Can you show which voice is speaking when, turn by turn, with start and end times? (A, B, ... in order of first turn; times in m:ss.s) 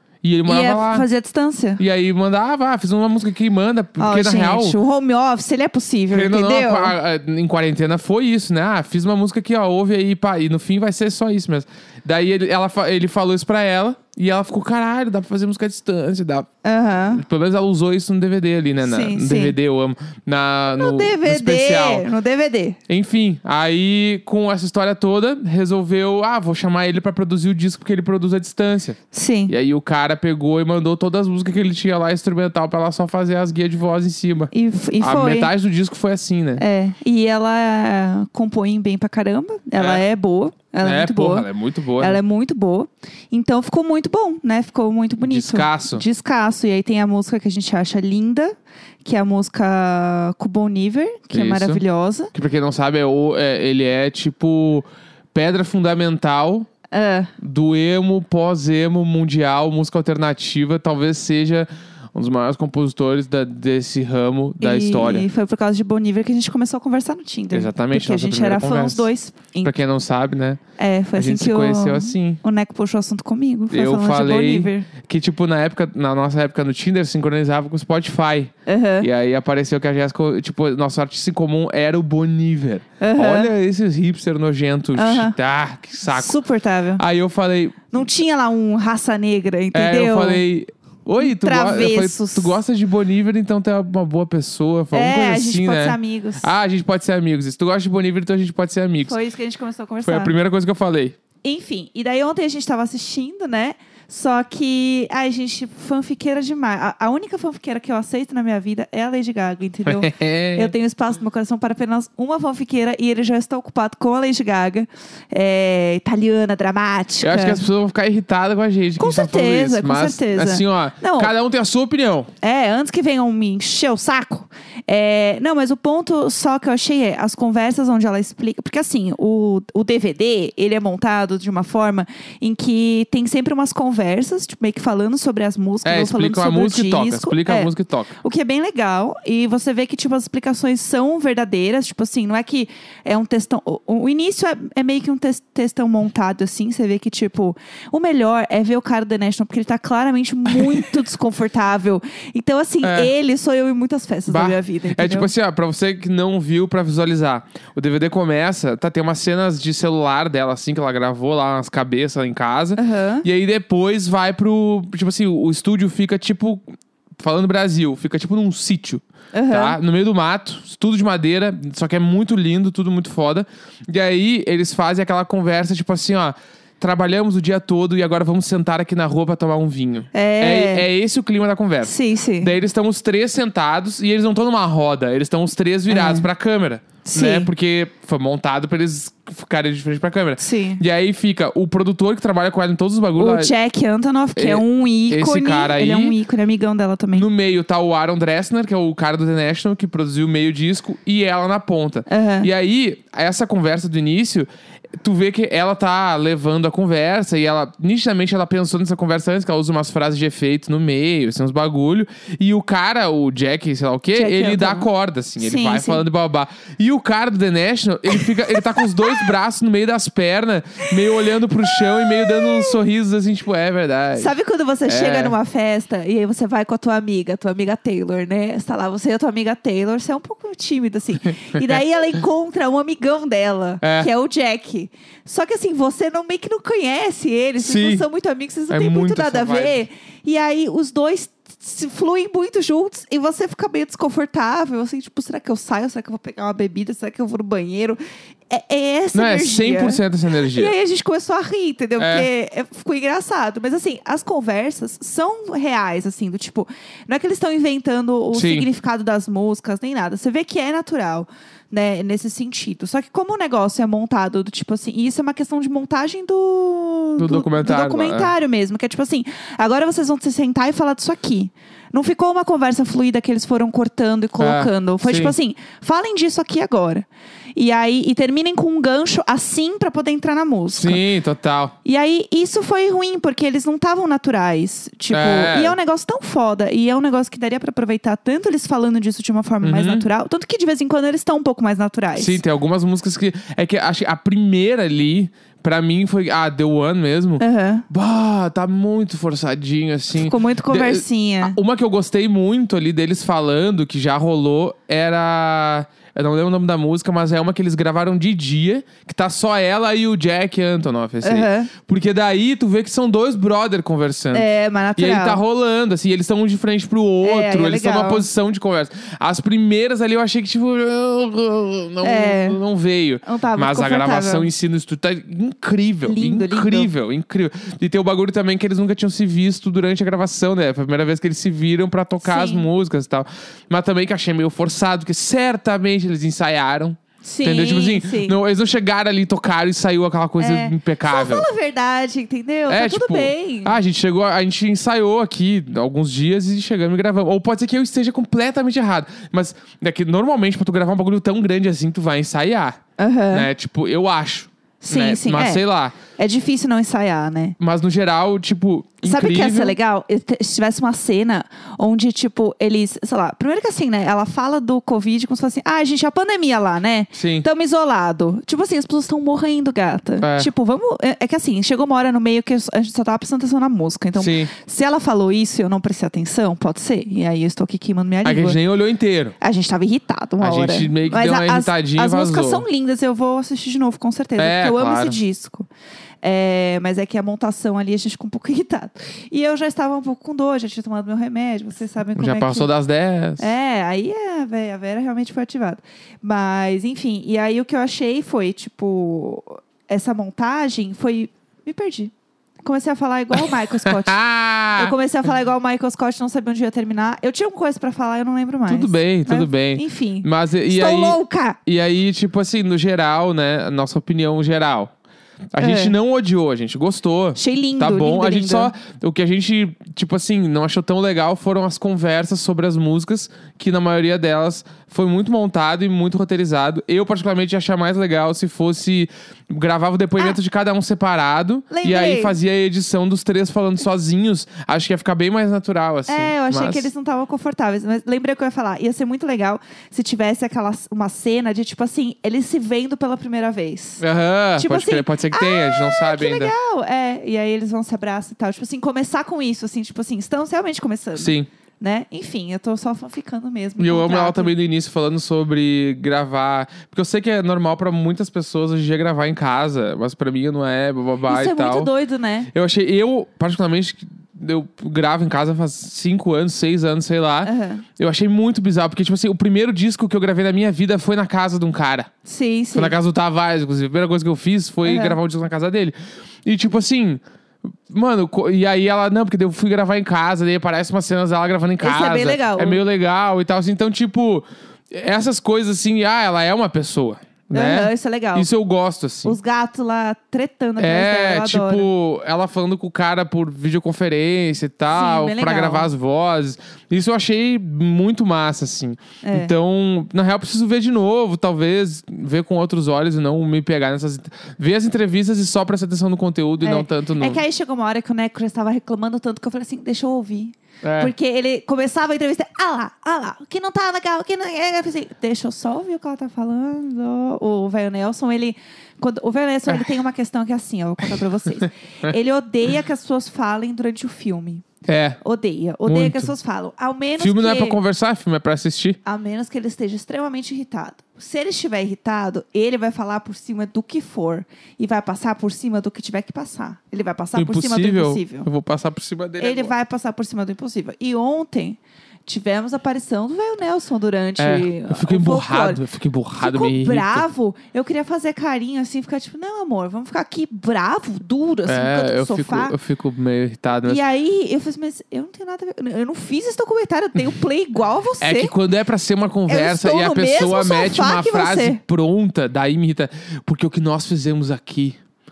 0:00.2-0:01.0 A
0:00.4-0:01.8 B
0:01.8-0:04.8 A
0:04.0-0:06.9 B
0:06.1-0:16.5 A
0:16.6-0:17.2 B
0:17.1-0:22.0 A
0:18.8-0:19.6 B
0:20.8-0:22.8 B
0:22.9-0:29.0 A
0:29.1-0:29.5 B
0:29.5-0:36.6 A
0:34.5-0:35.5 B
0:36.6-0:41.5 B
0:39.8-0:40.0 A
0:40.8-0:42.2 A
0:42.0-0:52.3 B
0:45.2-0:46.0 A
0:51.3-0:51.8 A
0:52.3-0:56.7 A
0:56.9-0:57.3 B
0:57.4-1:05.3 A
1:04.6-1:09.7 B
1:07.5-1:09.1 A
1:09.6-1:10.6 A
1:10.8-1:14.9 B
1:11.2-1:12.4 A
1:13.7-1:26.4 A
1:18.7-1:19.1 B
1:23.0-1:23.5 B
1:25.0-1:25.3 B
1:26.1-1:27.0 B
1:27.0-1:27.8 A
1:27.9-1:30.4 B
1:29.7-1:39.2 A
1:31.2-1:32.6 B
1:34.9-1:36.5 B
1:39.0-1:40.3 B
1:40.0-1:41.2 A
1:41.4-1:57.7 B
1:49.8-1:50.7 A
1:57.2-2:02.3 A
1:59.0-2:01.3 B
2:02.4-2:35.3 B
2:15.8-2:18.1 A
2:32.8-2:33.1 A
2:34.3-2:46.6 A
2:42.8-2:43.2 B
2:47.2-3:13.5 A
2:49.3-2:49.8 B
3:00.1-3:00.8 B
3:01.8-3:02.5 B
3:05.9-3:06.3 B
3:07.0-3:07.5 B
3:10.4-3:10.8 B
3:13.2-3:17.3 B
3:14.4-3:16.2 A
3:17.1-3:24.5 A
3:22.1-3:22.5 B
3:25.0-3:44.3 A
3:34.1-3:36.0 B
3:41.7-3:42.7 B
3:44.2-4:41.0 B
3:44.8-3:45.4 A
3:53.8-3:54.1 A
3:57.6-3:58.0 A
3:58.7-3:59.8 A
4:09.1-4:10.7 A
4:12.0-4:12.3 A
4:18.3-4:18.7 A
4:27.2-4:28.3 A
4:34.4-4:35.3 A
4:40.7-4:41.7 A
4:41.8-4:52.4 B
4:45.1-4:45.8 A
4:49.6-4:50.0 A
4:52.2-5:41.5 A
4:57.4-4:57.8 B
5:00.1-5:01.6 B
5:11.2-5:11.7 B
5:14.3-5:15.4 B
5:17.2-5:18.2 B
5:22.0-5:22.6 B
5:23.2-5:24.5 B
5:26.0-5:26.9 B
5:32.2-5:32.7 B
5:37.2-5:38.4 B
5:40.4-5:43.8 B
5:42.7-5:52.8 A
5:53.0-5:53.5 B
5:53.3-5:56.0 A
5:54.8-5:55.6 B
5:56.2-5:57.6 B
5:57.6-5:59.8 A
5:59.0-6:18.6 B
6:07.1-6:07.5 A
6:10.2-6:10.5 A
6:14.2-6:14.5 A
6:18.2-6:19.4 A
6:19.4-6:25.7 B
6:20.4-6:22.6 A
6:24.4-6:25.2 A
6:26.2-6:32.7 B
6:32.2-6:33.5 A
6:33.4-6:51.6 B
6:43.4-6:44.9 A
6:48.7-6:54.9 A
6:55.5-7:16.9 A
6:55.6-6:55.9 B
6:57.4-6:58.7 B
7:11.7-7:12.4 B
7:16.1-7:24.0 B
7:24.0-7:26.5 A
7:24.6-7:34.5 B
7:31.2-7:31.5 A
7:33.8-7:41.9 A
7:41.2-7:42.5 B
7:42.5-7:52.1 A
7:47.4-7:47.8 B
7:52.2-7:52.9 B
7:52.7-7:57.2 A
7:54.8-7:55.2 B
7:57.9-8:09.4 A
8:01.8-8:02.8 B
8:07.5-8:08.5 B
8:09.2-8:11.9 B
8:10.8-8:27.4 A
8:14.9-8:15.9 B
8:19.2-8:19.5 B
8:26.6-8:44.6 B
8:30.8-8:31.1 A
8:44.8-8:45.2 A
8:45.2-8:47.8 B
8:45.9-8:46.3 A
8:47.2-8:49.0 A
8:49.0-8:58.5 B
8:57.3-8:59.7 A
8:59.4-9:05.8 B
9:04.4-9:07.2 A
9:06.3-9:12.7 B
9:11.6-9:14.0 A
9:13.8-9:18.5 B
9:18.2-9:25.0 A
9:19.5-9:21.8 B